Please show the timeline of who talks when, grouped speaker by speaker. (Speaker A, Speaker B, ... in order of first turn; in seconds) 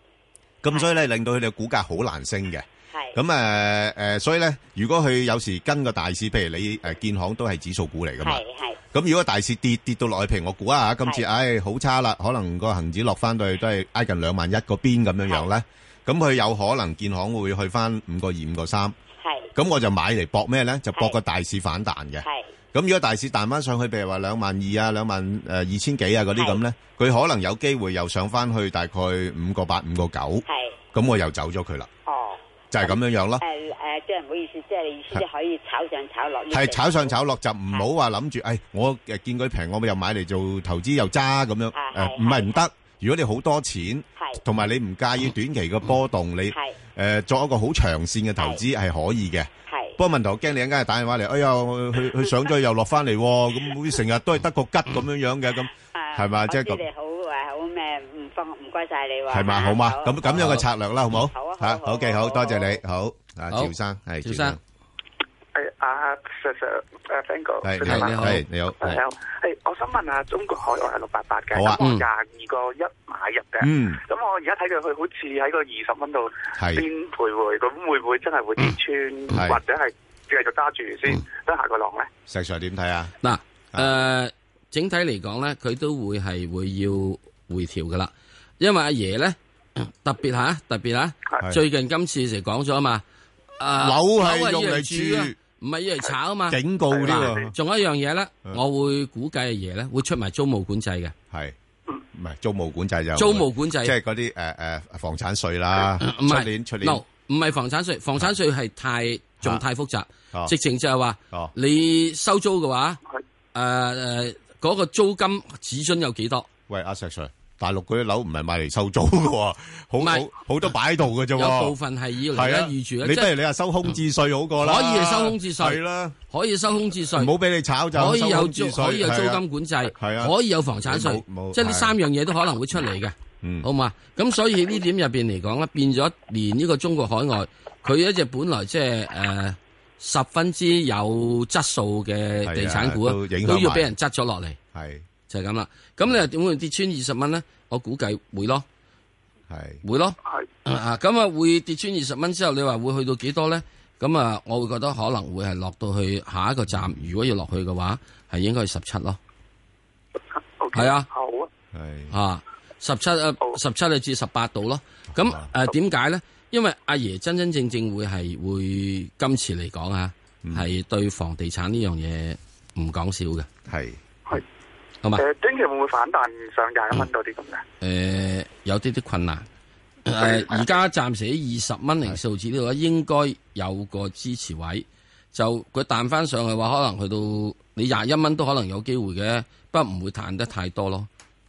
Speaker A: 0.6-19.0, 19.6-31.9, 32.7-33.4, 36.5-56.8, 59.3-64.6, 67.6-69.0, 71.5-71.8, 73.6-74.0, 76.6-76.9, 79.3-79.6, 82.3-83.2, 93.8-95.4, 96.5-97.5, 102.1-107.0, 116.7-121.8, 122.3-126.2, 127.1-132.0, 133.4-133.7, 142.4-143.9, 144.7-145.1, 149.5-149.8, 161.7-162.1, 165.2-165.5, 173.7-174.0
Speaker B: 2.9-3.2, 8.2-8.8, 19.2-19.5, 20.9-21.2, 22.2-22.5, 26.4-26.6, 30.5-30.8, 32.1-37.2, 41.7-42.6, 44.2-44.4, 49.7-50.0, 55.9-60.6, 61.2-62.8
Speaker C: 63.5-64.6, 67.9-68.4, 71.8-72.0, 83.2-93.0, 93.6-101.1, 103.2-104.0, 106.0-113.0, 113.5-116.5, 120.0-120.3, 121.3-123.3, 124.6-127.3, 127.9-144.6, 145.3-148.7, 149.8-159.2, 160.7-161.1, 162.1-173.5, 177.8-179.5, 180.1-191.1
Speaker D: 65.6-68.2, 68.8-82.1, 160.6-161.5, 175.2-177.6